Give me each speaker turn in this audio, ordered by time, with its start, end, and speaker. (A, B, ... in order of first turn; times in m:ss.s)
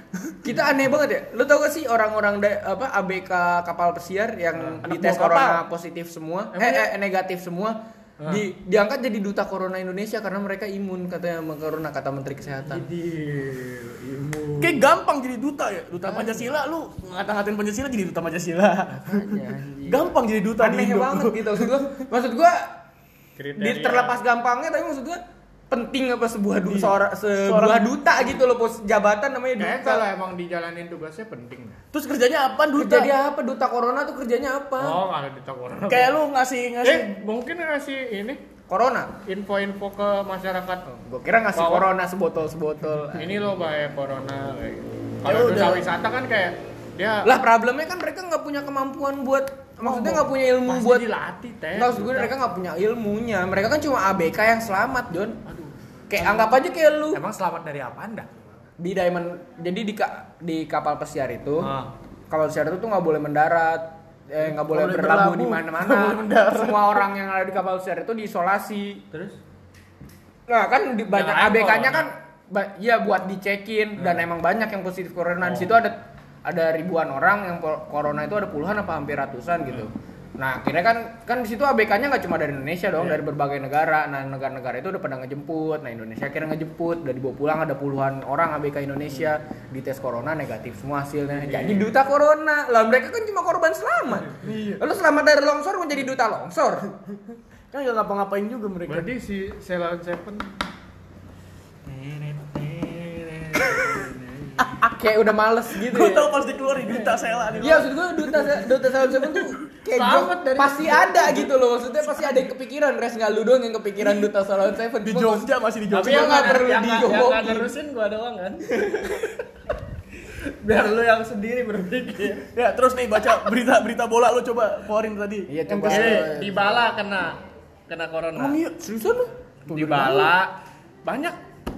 0:00.4-0:12.9 A
0:04.6-0:04.8 B
0:04.8-0:05.6 C
0:06.5-0:06.9 B
0:08.2-0:08.4 B
0:12.7-0:14.9 B
0:14.6-0:19.3 C
0:16.0-0:16.4 A
0:18.9-0:22.8 A
0:19.9-0:21.9 C
0:23.4-0:24.2 B
0:23.6-0:30.1 A
0:26.7-0:28.4 C
0:29.6-0:31.8 B
0:31.9-0:33.1 C
0:32.8-0:35.0 A
0:34.8-0:36.2 B
0:35.9-0:37.2 C
0:36.8-0:38.4 B
0:38.7-0:39.1 A
0:39.3-0:41.0 B
0:41.0-0:43.5 A
0:41.6-0:41.9 B
0:43.1-0:47.3 B
0:45.2-0:45.9 C
0:47.2-0:51.1 A
0:49.8-0:52.4 B
0:51.7-0:55.4 A
0:55.5-0:56.6 B
0:56.1-0:57.2 A
0:57.1-0:58.3 B
0:58.8-1:01.7 A
1:01.6-1:01.9 B
1:02.3-1:09.0 A
1:04.6-1:07.0 C
1:09.1-1:09.4 B
1:10.5-1:36.9 A
1:11.1-1:12.1 B
1:14.0-1:14.2 B
1:15.4-1:15.8 B
1:23.0-1:23.2 B
1:31.4-1:31.9 B
1:34.4-1:34.8 C
1:37.7-1:39.1 C
1:38.9-1:40.6 B
1:41.9-1:44.7 B
1:43.6-1:43.9 C
1:44.7-1:46.4 A
1:45.7-1:49.5 C
1:47.0-1:47.7 B
1:47.6-1:57.7 A
1:49.9-1:51.5 B
1:54.0-1:54.3 C
1:55.0-1:56.6 C
1:55.9-1:59.3 B
1:58.8-1:59.2 C
2:00.5-2:02.5 B
2:02.5-2:06.3 C
2:05.5-2:06.8 A
2:05.7-2:08.6 B
2:08.4-2:10.4 C
2:08.8-2:09.3 A
2:09.7-2:10.5 B
2:11.0-2:11.4 B